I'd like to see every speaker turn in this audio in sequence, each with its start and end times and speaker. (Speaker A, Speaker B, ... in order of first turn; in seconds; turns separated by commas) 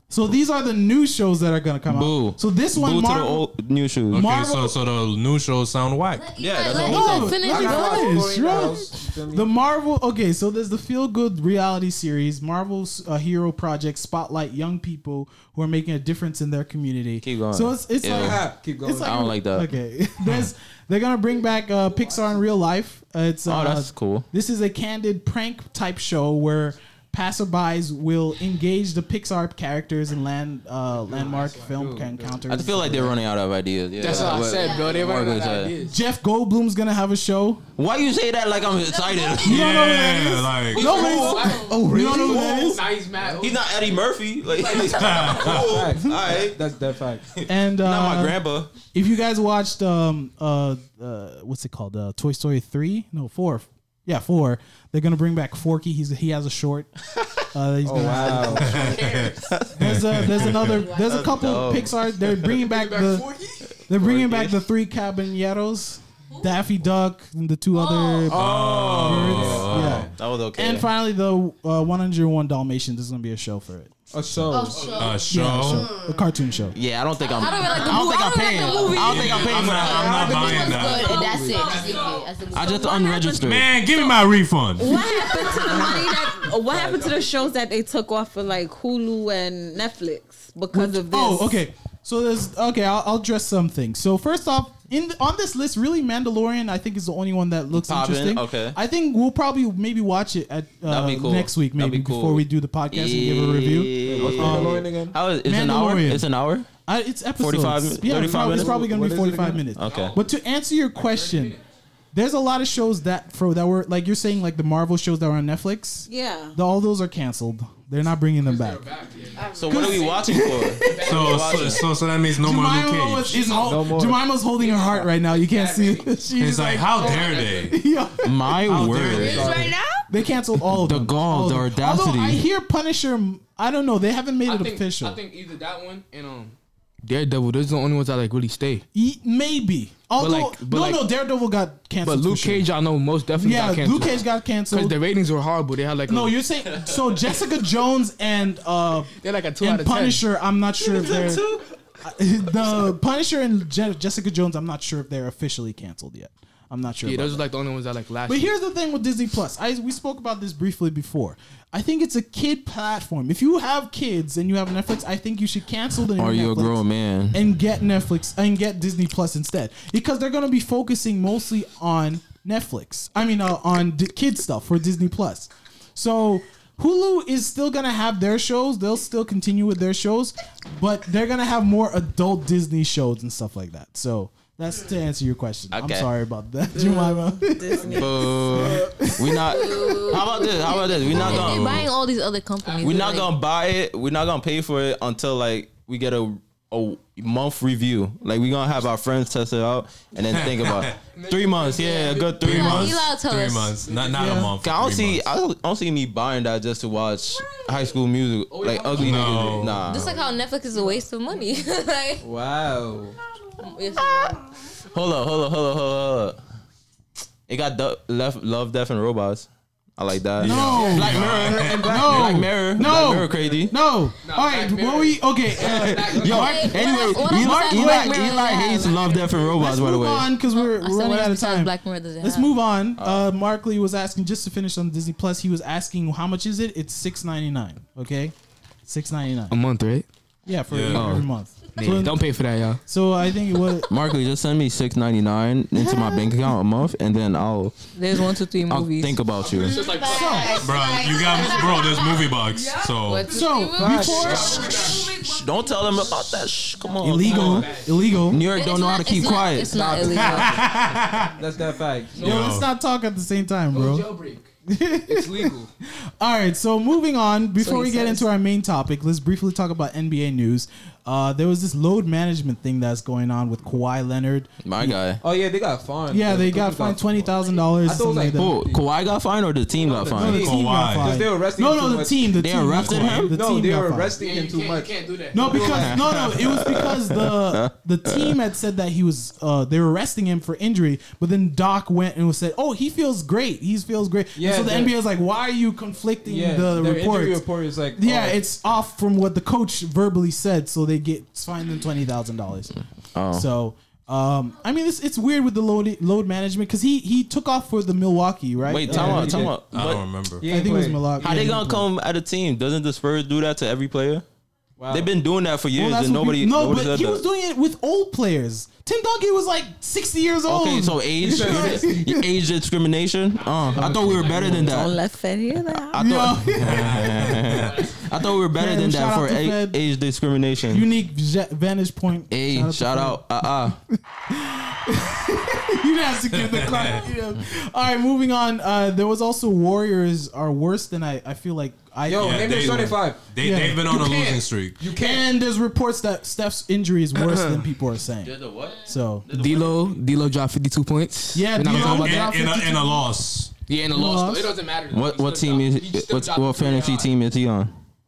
Speaker A: 0.1-3.5, Speaker B: 1.9-4.2, Speaker C: 4.1-6.3, Speaker A: 4.1-4.8, Speaker D: 6.1-8.7, Speaker B: 6.4-7.4, Speaker A: 6.7-33.2, Speaker E: 7.3-9.5, Speaker B: 17.2-18.4, Speaker E: 18.1-19.1, Speaker B: 19.0-19.7, Speaker F: 21.8-22.4, Speaker B: 23.4-24.2, Speaker F: 30.9-31.7, Speaker E: 31.7-32.4, Speaker B: 32.5-35.7, Speaker F: 34.0-36.0, Speaker G: 34.5-35.0, Speaker A: 35.8-37.6, Speaker B: 37.8-39.7, Speaker D: 38.6-39.8, Speaker A: 39.4-42.8, Speaker C: 39.4-41.0, Speaker F: 40.8-43.9, Speaker D: 40.8-41.9, Speaker B: 40.9-41.4, Speaker E: 41.7-42.6, Speaker E: 43.1-43.5, Speaker B: 43.4-46.6, Speaker F: 44.5-45.6, Speaker C: 44.9-45.8, Speaker E: 45.5-47.3, Speaker B: 47.4-48.7, Speaker A: 47.5-56.9, Speaker A: 57.5-58.9, Speaker E: 57.8-58.9, Speaker F: 58.5-59.4, Speaker C: 58.6-60.8, Speaker B: 59.3-60.0, Speaker A: 59.8-63.3, Speaker G: 60.6-61.4, Speaker B: 60.9-62.5, Speaker F: 62.6-63.8, Speaker A: 63.9-68.5, Speaker B: 64.0-64.5, Speaker D: 66.3-66.5, Speaker D: 67.7-68.3, Speaker E: 68.3-70.0, Speaker C: 68.3-70.1, Speaker B: 68.5-70.9, Speaker A: 69.0-74.0, Speaker E: 74.1-74.8, Speaker G: 74.5-76.3, Speaker F: 74.6-75.2, Speaker C: 75.0-75.9, Speaker A: 75.3-76.8, Speaker B: 76.7-80.2, Speaker D: 77.2-80.5, Speaker G: 77.4-78.1, Speaker G: 78.6-83.3, Speaker C: 79.0-81.2, Speaker F: 79.2-79.7, Speaker E: 80.1-81.6, Speaker F: 80.6-82.4, Speaker B: 82.5-83.7, Speaker C: 83.3-85.0, Speaker H: 84.8-91.5, Speaker D: 84.9-86.0, Speaker F: 85.5-85.9, Speaker F: 86.5-87.3, Speaker A: 90.7-104.8, Speaker B: 97.8-98.8, Speaker B: 100.8-106.7, Speaker E: 104.0-105.1, Speaker A: 105.4-106.3, Speaker A: 106.8-111.5, Speaker B: 107.4-108.8, Speaker E: 108.2-109.7, Speaker B: 109.8-110.2, Speaker F: 109.8-110.3, Speaker F: 110.9-111.6, Speaker A: 112.1-118.8, Speaker H: 116.1-116.6, Speaker F: 118.4-121.8, Speaker G: 119.3-120.3, Speaker B: 119.5-121.8, Speaker A: 119.7-121.0, Speaker C: 121.0-123.5, Speaker A: 122.3-129.5, Speaker F: 123.3-123.8, Speaker E: 123.6-124.2, Speaker F: 124.5-126.2, Speaker C: 126.4-127.8, Speaker F: 127.0-127.7, Speaker B: 128.2-129.5, Speaker E: 128.9-129.8, Speaker G: 129.0-130.0, Speaker F: 129.1-129.6, Speaker A: 130.1-135.2, Speaker B: 130.7-132.4, Speaker F: 134.4-138.8, Speaker A: 138.9-142.7, Speaker F: 140.2-141.1, Speaker F: 142.0-146.4, Speaker A: 143.3-144.9, Speaker A: 146.1-151.4, Speaker F: 149.2-150.2, Speaker B: 150.8-151.6, Speaker A: 152.0-157.4, Speaker F: 157.0-158.5, Speaker A: 158.3-189.3, Speaker B: 166.2-167.4, Speaker B: 185.7-186.1, Speaker H: 186.8-188.5, Speaker F: 187.8-188.1, Speaker B: 187.9-191.8, Speaker D: 189.3-193.3, Speaker C: 191.1-191.9, Speaker F: 192.6-193.2, Speaker B: 192.8-203.0, Speaker C: 200.2-201.0, Speaker F: 201.1-202.4, Speaker D: 201.8-203.8, Speaker C: 202.4-205.3, Speaker F: 203.8-204.4, Speaker A: 204.1-204.5, Speaker B: 204.6-210.1, Speaker F: 208.5-211.5, Speaker C: 208.9-210.1, Speaker D: 209.8-212.3, Speaker E: 212.2-213.2, Speaker D: 213.6-214.4, Speaker B: 214.0-214.2, Speaker B: 214.9-216.4, Speaker B: 217.5-223.7, Speaker C: 220.4-222.0, Speaker A: 220.4-228.3, Speaker E: 221.0-223.2, Speaker F: 224.2-226.8, Speaker B: 225.6-230.3, Speaker D: 226.3-229.3, Speaker A: 229.5-238.3, Speaker D: 230.4-232.6, Speaker B: 233.0-233.3, Speaker A: 238.8-239.6, Speaker F: 239.5-240.1, Speaker A: 240.5-242.2, Speaker C: 240.7-241.1, Speaker F: 241.8-242.8, Speaker A: 242.8-243.9, Speaker B: 243.9-247.8, Speaker A: 245.8-246.2, Speaker D: 247.9-249.3, Speaker B: 248.7-249.8, Speaker F: 249.4-250.8, Speaker G: 249.6-253.8, Speaker A: 250.0-250.6, Speaker C: 250.5-253.3, Speaker D: 251.3-256.4, Speaker A: 253.3-254.9, Speaker E: 253.7-254.6, Speaker F: 254.2-255.1, Speaker B: 255.1-257.7, Speaker A: 257.0-258.4, Speaker F: 257.1-258.2, Speaker B: 258.3-260.1, Speaker D: 258.4-260.7, Speaker E: 259.6-262.3, Speaker C: 260.0-261.3, Speaker F: 262.1-262.6, Speaker A: 262.2-264.1, Speaker C: 262.2-262.6, Speaker F: 263.7-264.4, Speaker A: 264.7-265.5, Speaker F: 265.1-265.7, Speaker A: 266.2-275.0, Speaker D: 267.6-268.3, Speaker B: 274.6-275.2, Speaker E: 275.2-278.8, Speaker A: 276.1-278.6, Speaker B: 278.3-280.5, Speaker E: 279.8-282.4, Speaker A: 280.1-284.1, Speaker C: 280.3-281.1, Speaker B: 282.4-283.3, Speaker C: 282.7-283.3, Speaker E: 283.2-286.0, Speaker F: 284.1-285.9, Speaker A: 285.3-297.4, Speaker B: 285.8-288.4, Speaker E: 294.3-295.0, Speaker E: 296.2-298.4, Speaker A: 297.9-302.7, Speaker B: 303.1-303.5, Speaker A: 303.3-309.5, Speaker B: 308.6-310.0, Speaker E: 308.8-309.6, Speaker C: 309.7-310.4, Speaker E: 310.4-311.5, Speaker A: 310.4-311.9, Speaker B: 311.2-314.2, Speaker E: 314.8-315.1, Speaker B: 314.9-317.2, Speaker A: 315.7-322.2, Speaker B: 320.4-325.0, Speaker E: 321.2-322.0, Speaker F: 323.4-324.6, Speaker H: 324.5-326.0, Speaker B: 325.8-330.9, Speaker A: 325.9-326.9, Speaker C: 326.6-327.8, Speaker F: 327.5-327.9, Speaker A: 328.5-329.8, Speaker A: 330.7-344.4, Speaker B: 332.3-333.8, Speaker C: 336.3-337.0, Speaker E: 342.1-343.2, Speaker C: 342.2-344.8, Speaker E: 344.8-345.3, Speaker A: 344.9-349.3, Speaker F: 347.2-347.6, Speaker B: 348.2-350.0, Speaker F: 349.3-352.3, Speaker A: 351.3-353.0, Speaker C: 351.6-353.5, Speaker F: 353.7-357.1, Speaker A: 353.9-354.5, Speaker B: 354.9-357.7